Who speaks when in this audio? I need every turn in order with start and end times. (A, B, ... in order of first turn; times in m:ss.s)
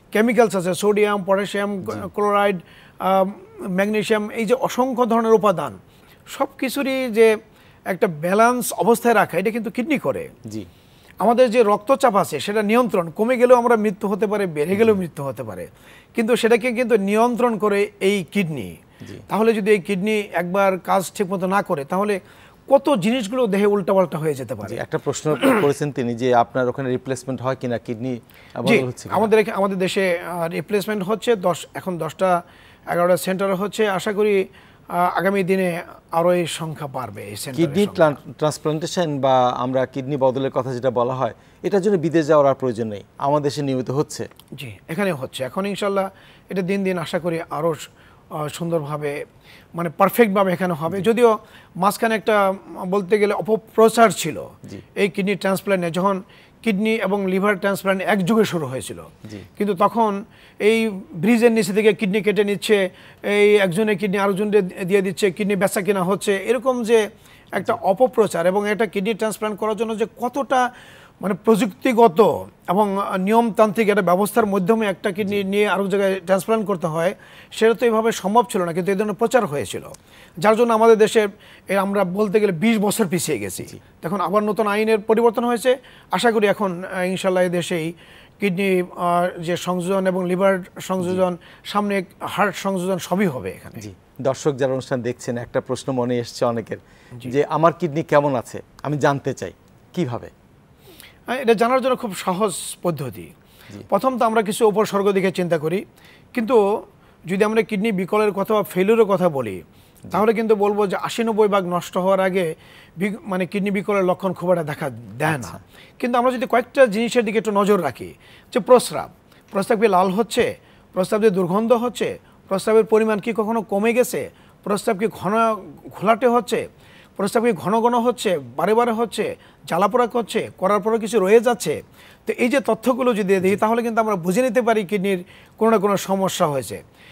0:00.1-0:05.8 A
0:06.3-0:07.3 A
0:07.9-0:10.3 A
0:11.2-0:18.8 A
0:19.3-0:22.2 A
0:22.7-0:24.8 A
0:24.6-0:29.3 B
0:28.6-0:32.4 A
0:32.9-0:34.4 A
0:34.9-0:38.2 A
0:37.5-0:44.3 B
0:44.6-0:47.8 A
0:48.4-0:49.2 A
0:49.8-1:07.0 A
1:07.5-1:10.6 A
1:11.2-1:33.8 A
1:33.8-1:40.3 B
1:41.3-1:43.3 A
1:43.9-1:45.8 A
1:46.3-1:46.6 A
1:47.3-1:52.5 A
1:53.0-2:06.6 A
1:55.3-1:55.6 B
2:07.2-2:16.8 A